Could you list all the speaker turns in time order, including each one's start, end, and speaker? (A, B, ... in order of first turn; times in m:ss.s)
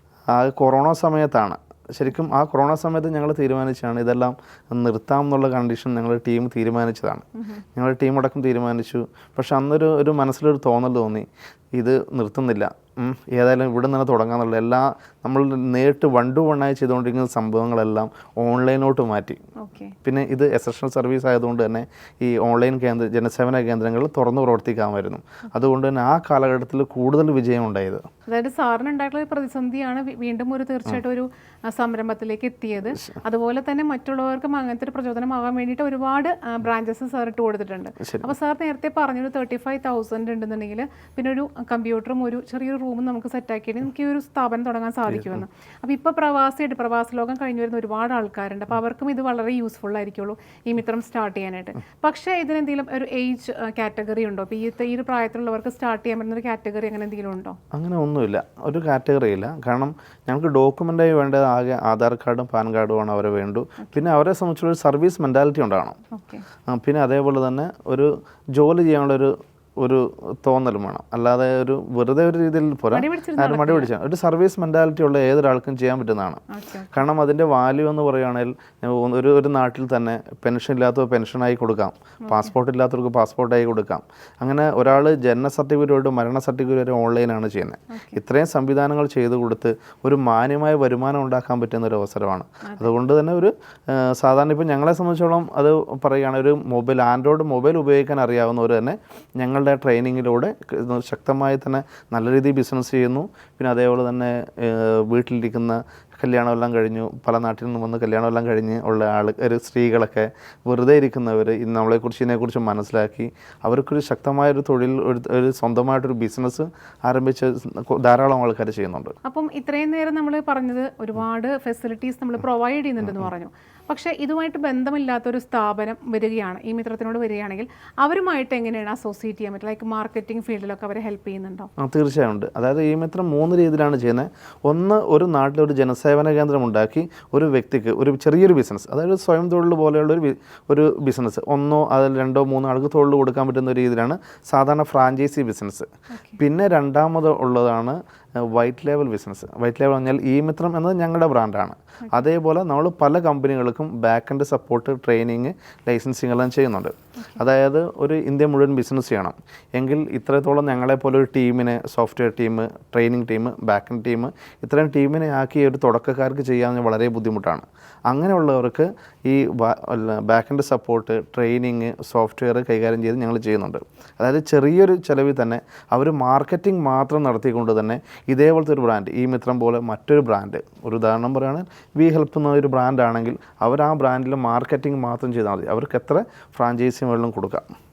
0:00.3-0:19.4 A
0:19.6-0:20.0 B
0:20.0-0:28.1 A
0:28.3-0:57.6 B
0:33.0-0:33.2 A
0:38.0-0:38.3 A
0:45.1-0:45.4 A
0:57.7-1:06.0 A
1:06.1-1:06.5 B
1:06.7-1:16.4 A
1:12.9-1:13.9 B
1:16.5-1:16.9 B
1:16.9-1:59.2 A
1:22.2-1:22.5 B
1:27.9-1:28.2 B
1:32.7-1:32.9 B
1:59.2-2:11.7 B
2:11.8-2:25.9 A
2:26.1-2:26.4 B
2:26.4-3:07.6 A